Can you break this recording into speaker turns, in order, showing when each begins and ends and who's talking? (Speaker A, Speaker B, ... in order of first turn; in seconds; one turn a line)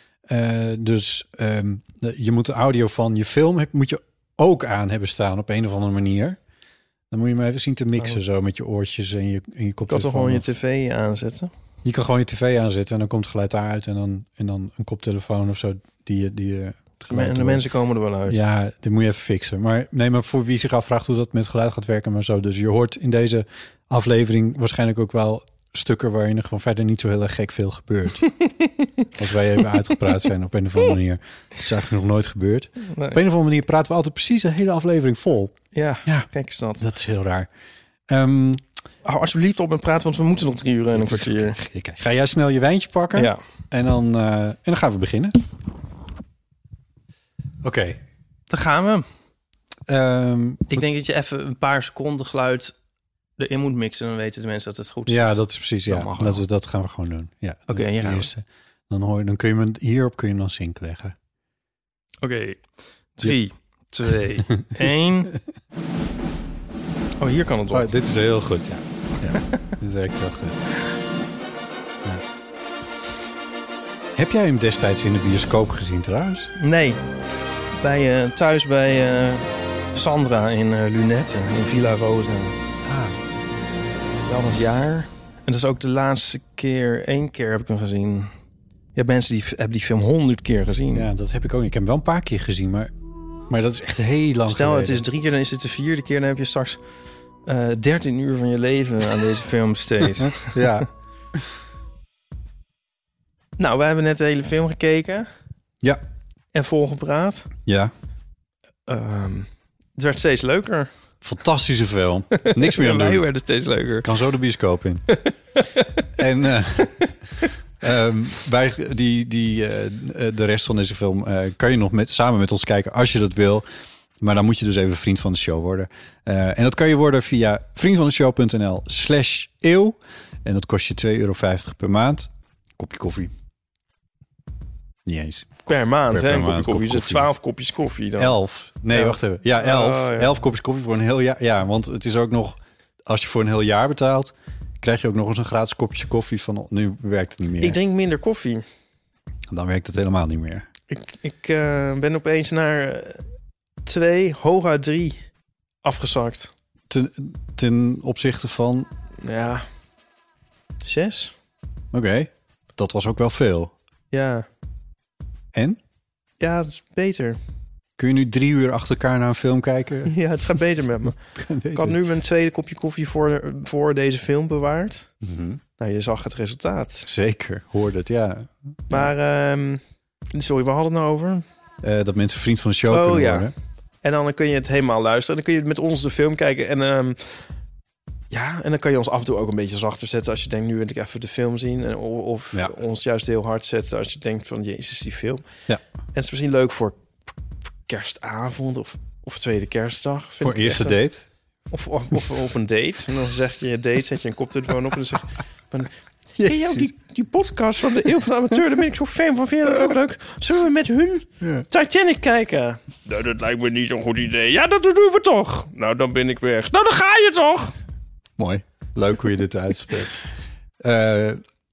Speaker A: 0.3-6.4
Speaker A: 7.1-10.5
Speaker B: 9.9-11.5
Speaker A: 11.8-17.7
Speaker B: 17.0-18.4
Speaker A: 18.3-28.3
Speaker B: 28.4-28.7
Speaker A: 29.1-37.5
Speaker B: 32.9-33.2
Speaker B: 35.7-36.9
Speaker A: 38.1-38.6
Speaker B: 39.0-41.6
Speaker A: 40.9-45.4
Speaker B: 43.1-43.4
Speaker A: 47.6-48.0
Speaker B: 48.5-49.0
Speaker A: 49.9-50.8
Speaker B: 50.7-52.8
Speaker B: 53.4-56.5
Speaker A: 55.1-61.1
Speaker B: 57.7-58.3
Speaker B: 62.2-62.6
Speaker B: 63.2-65.3
Speaker B: 67.2-67.9
Speaker A: 67.7-70.6
Speaker A: 74.2-76.5
Speaker B: 76.6-77.0
Speaker B: 77.8-82.6
Speaker A: 82.9-83.2
Speaker B: 84.3-88.3
Speaker B: 89.0-91.1
Speaker A: 90.9-92.9
Speaker A: 93.5-95.0
Speaker B: 94.5-96.8
Speaker B: 97.5-100.8
Speaker A: 100.1-100.9
Speaker B: 103.6-105.3
Speaker B: 106.5-107.5
Speaker A: 107.7-107.9
Speaker B: 108.9-110.9
Speaker A: 111.2-113.3
Speaker B: 112.3-114.1
Speaker A: 114.0-115.1
Speaker B: 115.1-115.9
Speaker A: 116.2-117.1
Speaker A: 117.8-123.7
Speaker A: 124.2-133.3
Speaker A: 135.1-137.3
Speaker B: 135.7-138.4
Speaker A: 138.2-147.8
Speaker B: 138.9-140.3
Speaker B: 147.6-148.6
Speaker A: 149.5-150.7
Speaker B: 150.9-153.2
Speaker B: 153.8-155.2
Speaker B: 155.8-156.5
Speaker A: 156.9-158.9
Speaker B: 159.2-159.7
Speaker B: 160.8-161.3
Speaker A: 161.9-163.7
Speaker B: 164.1-164.5
Speaker B: 166.4-167.4
Speaker A: 168.0-170.2
Speaker B: 170.1-171.2
Speaker A: 171.4-172.0
Speaker B: 171.7-175.1
Speaker A: 175.2-175.6
Speaker B: 175.8-177.1
Speaker A: 177.1-179.1
Speaker B: 178.9-179.8
Speaker B: 180.3-181.4
Speaker A: 181.8-183.5
Speaker B: 182.9-183.5
Speaker B: 184.0-187.4
Speaker B: 188.3-195.4
Speaker B: 196.1-197.3
Speaker B: 197.9-201.0
Speaker A: 200.4-201.3
Speaker B: 201.7-217.8
Speaker A: 206.4-206.9
Speaker A: 218.4-220.2
Speaker A: 220.8-221.4